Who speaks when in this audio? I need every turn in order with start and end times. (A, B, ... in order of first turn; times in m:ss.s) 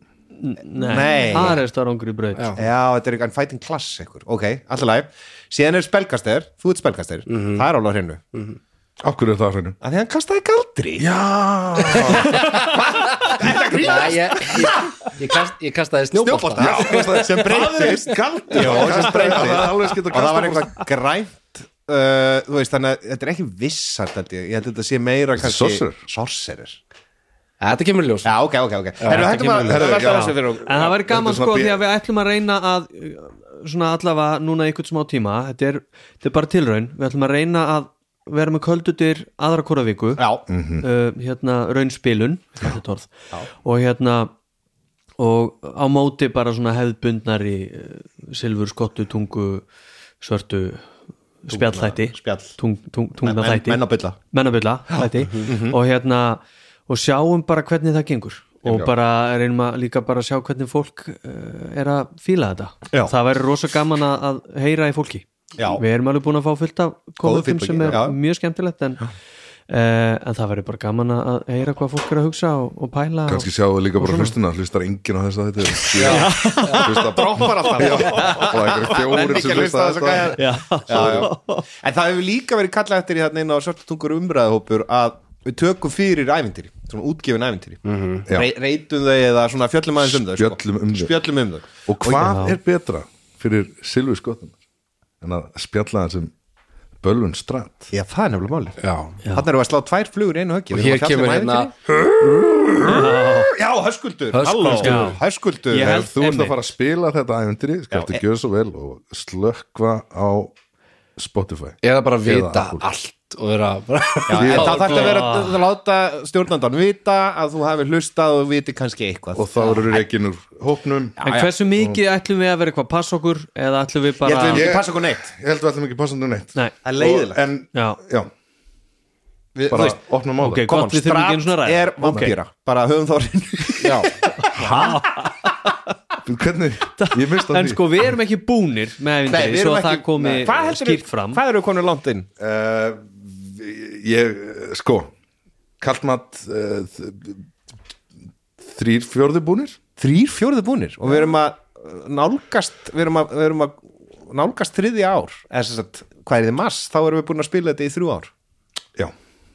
0:00.4-0:02.6 A
0:00.8-0:01.6 B
0:02.6-0:08.3 B
0:07.3-0:07.6 C
0:08.3-0:08.6 C
0:09.0-0:09.8 D
0:09.8-0:11.1 B
0:11.0-0:12.5 D
0:11.9-0:12.4 C
0:12.0-0:15.1 B
0:13.8-0:17.8 C
0:16.2-0:26.8 B
0:16.6-0:20.8 D
0:25.4-0:26.0 D
0:27.6-0:28.3 C
0:28.2-0:30.9 B
0:29.0-0:29.8 C
0:29.1-0:40.2 A
0:29.6-0:31.8 D
0:40.2-0:40.4 B
0:40.5-0:40.8 D
0:40.8-0:43.1 A
0:43.6-0:44.3 A
0:45.2-0:49.6 A
0:50.2-0:50.8 A
0:51.4-1:09.1 A
0:51.5-0:52.6 B
0:53.2-0:54.2 B
0:54.9-0:55.8 B
0:55.2-0:55.5 C
1:05.6-1:05.8 B
1:07.2-1:08.2 B
1:09.7-1:14.3 A
1:13.3-1:21.3 D
1:15.9-1:18.5 A
1:16.0-1:32.3 B
1:20.4-1:21.6 A
1:27.8-1:28.3 C
1:30.0-1:31.1 D
1:31.8-1:34.6 D
1:32.2-1:32.6 A
1:35.2-1:36.3 D
1:37.0-1:37.9 D
1:37.9-1:38.8 B
1:38.8-1:39.2 C
1:39.3-1:41.7 B
1:40.7-1:41.7 C
1:41.9-1:43.2 D
1:42.8-1:43.5 A
1:42.8-1:46.1 B
1:44.3-1:45.2 C
1:44.8-1:45.2 A
1:45.7-1:46.7 A
1:45.7-1:50.5 D
1:47.9-1:48.2 B
1:51.2-1:52.8 D
1:51.8-1:55.2 C
1:54.3-2:00.0 B
1:54.4-1:55.0 D
1:54.8-1:55.6 A
1:59.3-2:01.2 D
2:01.2-2:01.5 B
2:01.2-2:04.7 A
2:01.8-2:02.0 D
2:04.2-2:05.3 B
2:04.5-2:08.3 D
2:06.8-2:07.4 B
2:07.7-2:08.0 A
2:09.5-2:10.0 B
2:09.7-2:10.6 D
2:10.4-2:12.3 A
2:10.7-2:15.5 B
2:13.8-2:14.1 C
2:14.4-2:15.5 A
2:14.6-2:14.9 D
2:16.2-2:17.8 D
2:17.0-2:21.4 A
2:19.3-2:22.3 B
2:22.4-2:25.1 D
2:25.8-2:27.4 D
2:28.6-2:29.8 D
2:30.0-2:38.3 B